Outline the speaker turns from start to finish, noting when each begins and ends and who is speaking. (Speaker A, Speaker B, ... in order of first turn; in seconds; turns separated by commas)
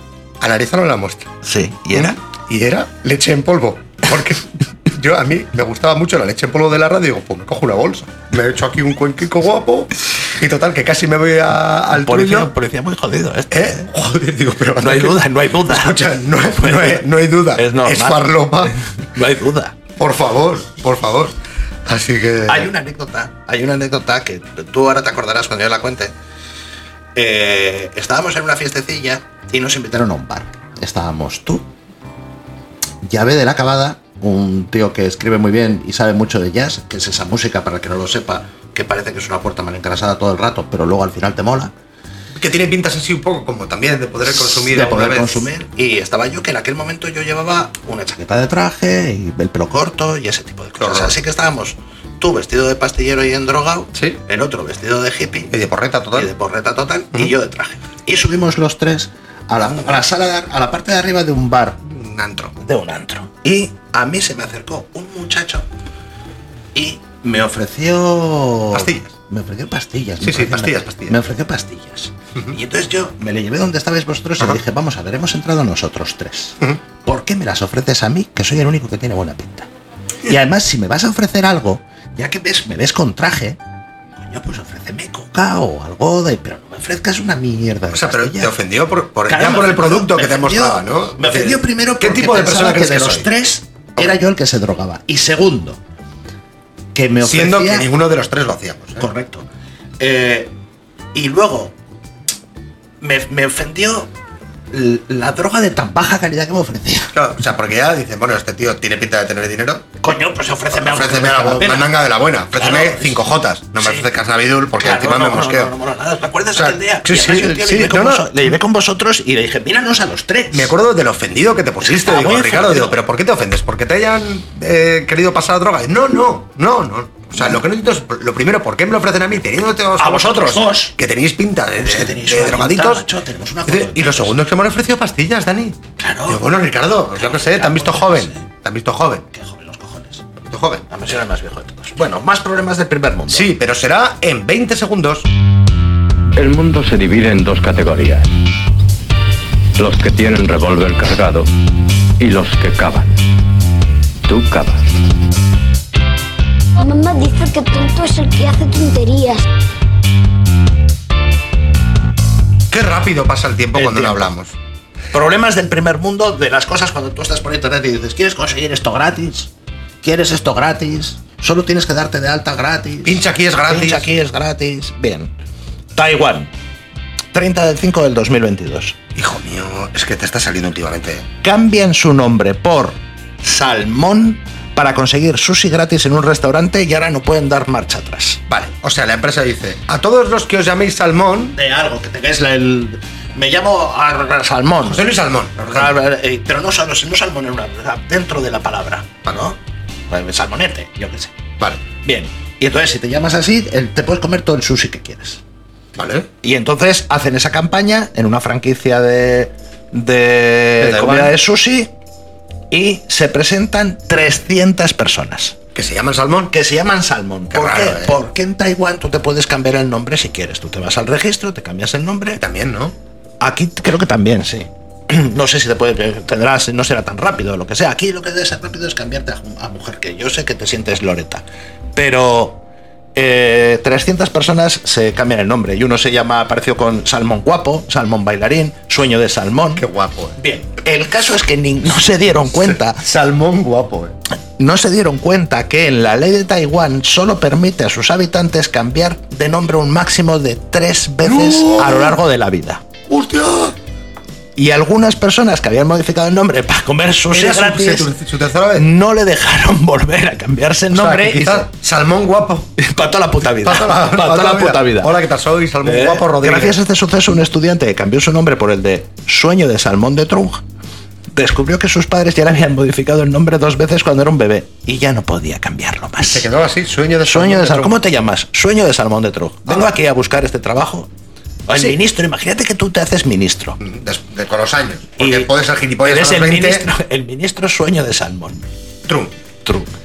Speaker A: 0.4-1.3, Speaker B: 1.4-2.2, Speaker A: 1.9-12.5, Speaker B: 11.9-13.9, Speaker A: 13.5-18.7, Speaker B: 14.8-19.8, Speaker A: 20.0-21.3, Speaker A: 21.9-22.7, Speaker B: 22.5-26.1, Speaker B: 27.1-31.6, Speaker B: 33.0-41.7, Speaker A: 42.4-45.5, Speaker B: 44.3-55.5, Speaker A: 50.8-51.2, Speaker A: 53.9-54.2, Speaker A: 55.5-56.3, Speaker B: 56.1-61.8, Speaker A: 59.6-60.0, Speaker A: 61.8-62.5, Speaker B: 62.6-65.7, Speaker B: 66.7-79.7, Speaker A: 68.7-69.1, Speaker A: 70.2-71.2, Speaker B: 80.2-83.6, Speaker B: 84.2-88.5, Speaker A: 87.9-93.3, Speaker B: 89.3-95.8, Speaker B: 96.9-97.9, Speaker A: 97.2-99.0, Speaker B: 99.0-99.5, Speaker B: 100.0-100.5, Speaker B: 101.1-101.7, Speaker B: 103.0-104.1, Speaker B: 104.7-107.1, Speaker A: 107.1-110.0, Speaker B: 110.0-111.9, Speaker A: 110.7-115.7, Speaker B: 112.5-113.3, Speaker B: 113.8-114.1, Speaker B: 114.7-120.7, Speaker A: 116.5-118.5, Speaker A: 120.5-133.1, Speaker B: 121.8-123.0, Speaker B: 130.0-130.9, Speaker B: 131.7-134.4, Speaker A: 133.7-139.2, Speaker B: 136.0-136.4, Speaker B: 137.1-138.4, Speaker B: 139.3-140.2, Speaker A: 140.4-140.8, Speaker B: 140.9-143.5, Speaker A: 143.3-145.3, Speaker C: 146.3-148.3, Speaker C: 149.8-151.5, Speaker C: 152.2-153.2, Speaker C: 154.2-154.9, Speaker D: 156.8-159.4, Speaker A: 162.7-164.5, Speaker B: 163.7-164.3, Speaker B: 165.1-169.5, Speaker B: 170.0-175.3, Speaker A: 173.0-174.1, Speaker B: 175.9-176.5, Speaker B: 177.3-179.0, Speaker A: 179.1-181.2, Speaker B: 181.4-188.4, Speaker A: 188.5-191.6, Speaker B: 191.5-195.1, Speaker A: 194.8-196.0, Speaker B: 195.6-199.6, Speaker B: 200.1-201.3, Speaker B: 202.0-205.4, Speaker A: 205.9-206.3, Speaker B: 206.4-211.9, Speaker A: 210.8-211.3, Speaker B: 212.7-215.6, Speaker A: 215.7-216.5, Speaker B: 216.5-222.4, Speaker A: 217.5-218.2, Speaker A: 222.3-222.9, Speaker B: 223.4-231.4, Speaker B: 231.9-232.6, Speaker B: 233.1-239.8, Speaker A: 239.8-240.4, Speaker B: 240.4-243.0, Speaker A: 242.6-244.2, Speaker B: 244.6-252.8, Speaker A: 251.2-252.2, Speaker A: 253.1-253.8, Speaker B: 254.6-258.1, Speaker A: 257.3-258.9, Speaker B: 258.7-261.7, Speaker A: 260.9-262.7, Speaker B: 262.8-265.1, Speaker A: 263.6-266.8, Speaker B: 265.8-270.6, Speaker B: 271.3-276.5, Speaker A: 276.2-278.0, Speaker B: 277.2-281.1, Speaker A: 279.7-279.9, Speaker B: 281.7-283.8, Speaker A: 283.8-286.9, Speaker B: 285.2-288.7, Speaker A: 289.1-289.3, Speaker B: 289.6-289.9